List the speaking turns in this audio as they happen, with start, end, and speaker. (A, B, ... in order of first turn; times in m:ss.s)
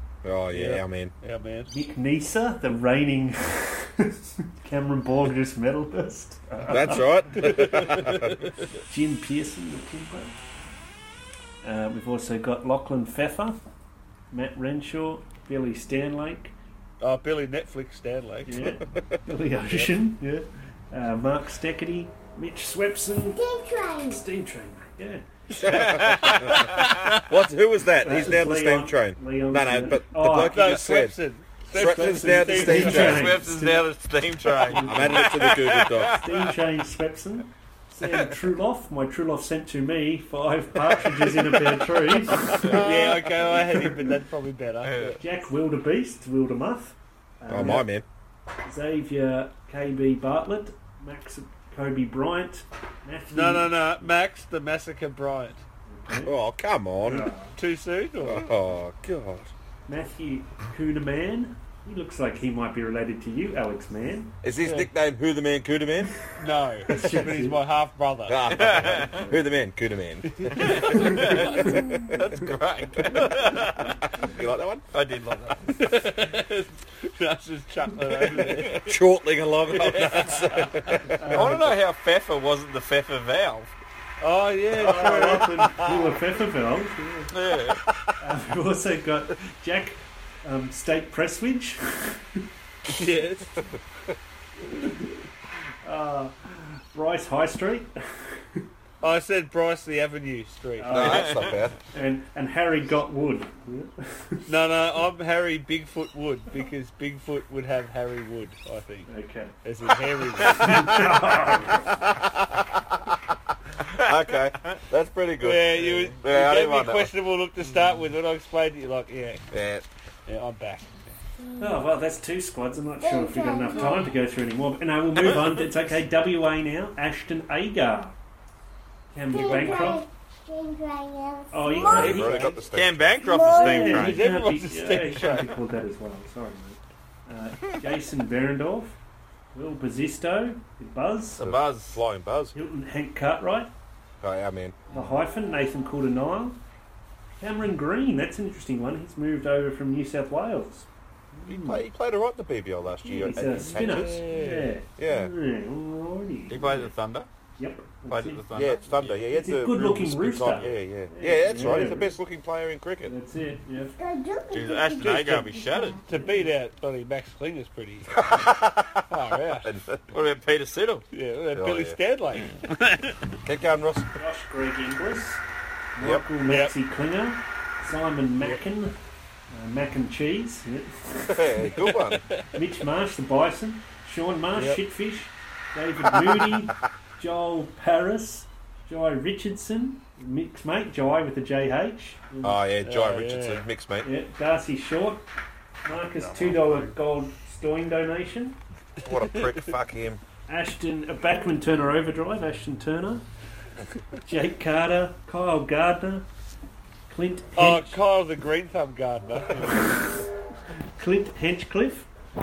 0:00.2-0:01.1 A
0:00.5-0:01.7 B
0:01.7-0:07.7 C
0:06.6-0:08.4 A
0:07.4-0:08.4 B
0:08.9-0:10.4 C
0:11.6-0:13.6 C
0:14.3-0:16.6 C
0:17.0-0:18.8 B
0:18.5-0:23.4 C
0:18.9-0:19.2 A
0:19.7-0:19.9 B
0:23.3-0:24.3 D
0:24.0-0:25.3 C
0:25.6-0:31.2 A
0:25.6-0:27.3 B
0:25.6-0:26.9 E
0:28.0-0:30.8 C
0:30.4-0:33.3 B
0:31.7-0:33.4 A
0:31.7-0:33.9 C
0:32.7-0:36.5 E
0:34.5-0:35.5 C
0:34.7-0:36.3 A
0:36.0-0:44.0 C
0:42.5-0:42.9 E
0:42.5-0:45.2 B
0:44.8-0:45.2 E
0:45.2-0:47.9 C
0:47.5-0:48.1 A
0:48.6-0:53.7 C
0:53.3-0:55.6 B
0:55.9-0:56.3 C
0:56.1-0:57.3 A
0:57.0-0:57.5 C
0:57.6-0:58.5 B
0:58.2-0:59.5 A
0:59.9-1:04.4 C
1:04.4-1:06.2 A
1:04.6-1:04.9 B
1:06.4-1:08.9 B
1:06.9-1:07.6 C
1:08.3-1:14.9 A
1:08.5-1:09.2 E
1:10.3-1:11.1 B
1:10.6-1:14.0 E
1:10.8-1:11.8 C
1:14.9-1:15.9 E
1:15.7-1:19.0 B
1:18.8-1:21.5 A
1:19.7-1:21.5 B
1:21.2-1:21.8 C
1:21.2-1:23.7 E
1:24.2-1:26.0 B
1:24.8-1:27.4 C
1:27.3-1:27.8 E
1:27.7-1:28.1 A
1:28.2-1:32.5 C
1:32.9-1:33.6 B
1:34.7-1:35.1 C
1:35.8-1:38.7 C
1:39.0-1:41.3 B
1:40.8-1:44.5 C
1:40.9-1:41.8 A
1:41.0-1:41.4 E
1:44.5-1:49.1 B
1:49.1-1:49.5 C
1:49.6-1:51.2 B
1:50.4-1:52.1 C
1:53.8-1:57.1 A
1:55.4-1:59.5 B
1:59.5-1:59.9 A
2:00.3-2:01.2 B
2:01.4-2:01.8 D
2:01.6-2:08.2 C
2:03.0-2:04.2 D
2:09.1-2:10.0 C
2:09.3-2:12.4 D
2:11.5-2:12.6 C
2:11.8-2:13.2 A
2:12.0-2:12.6 B
2:12.7-2:14.3 E
2:13.2-2:14.1 D
2:13.4-2:19.0 C
2:13.8-2:15.6 B
2:19.5-2:21.4 C
2:21.4-2:22.0 E
2:21.4-2:22.6 A
2:22.5-2:23.7 C
2:24.2-2:24.8 A
2:24.9-2:26.6 C
2:27.4-2:31.8 C
2:31.5-2:34.2 A
2:33.1-2:36.9 C
2:33.2-2:34.8 B
2:35.0-2:35.3 A
2:36.5-2:37.3 E
2:37.6-2:38.4 C
2:38.1-2:39.2 E
2:38.5-2:43.2 A
2:39.3-2:42.1 C
2:43.0-2:44.0 C
2:44.0-2:46.2 D
2:44.5-2:46.0 E
2:46.1-2:48.2 B
2:48.1-2:50.1 A
2:49.1-2:49.7 B
2:50.1-2:51.0 E
2:51.1-2:53.3 B
2:51.5-2:52.0 A
2:53.4-2:54.1 A
2:54.2-2:55.4 C
2:56.0-2:59.0 C
2:56.0-2:56.3 A
2:56.5-2:56.8 B
2:59.5-3:01.9 C
3:01.3-3:02.2 A
3:01.8-3:02.6 B
3:02.5-3:12.6 C
3:04.5-3:04.8 B
3:12.4-3:14.1 A
3:12.8-3:13.7 B
3:14.0-3:15.2 C
3:15.8-3:18.6 C
3:16.2-3:16.9 A
3:19.0-3:20.2 A
3:19.1-3:19.7 B
3:20.5-3:23.3 C
3:24.2-3:26.3 C
3:27.1-3:28.0 C
3:27.6-3:30.2 B
3:31.0-3:32.1 C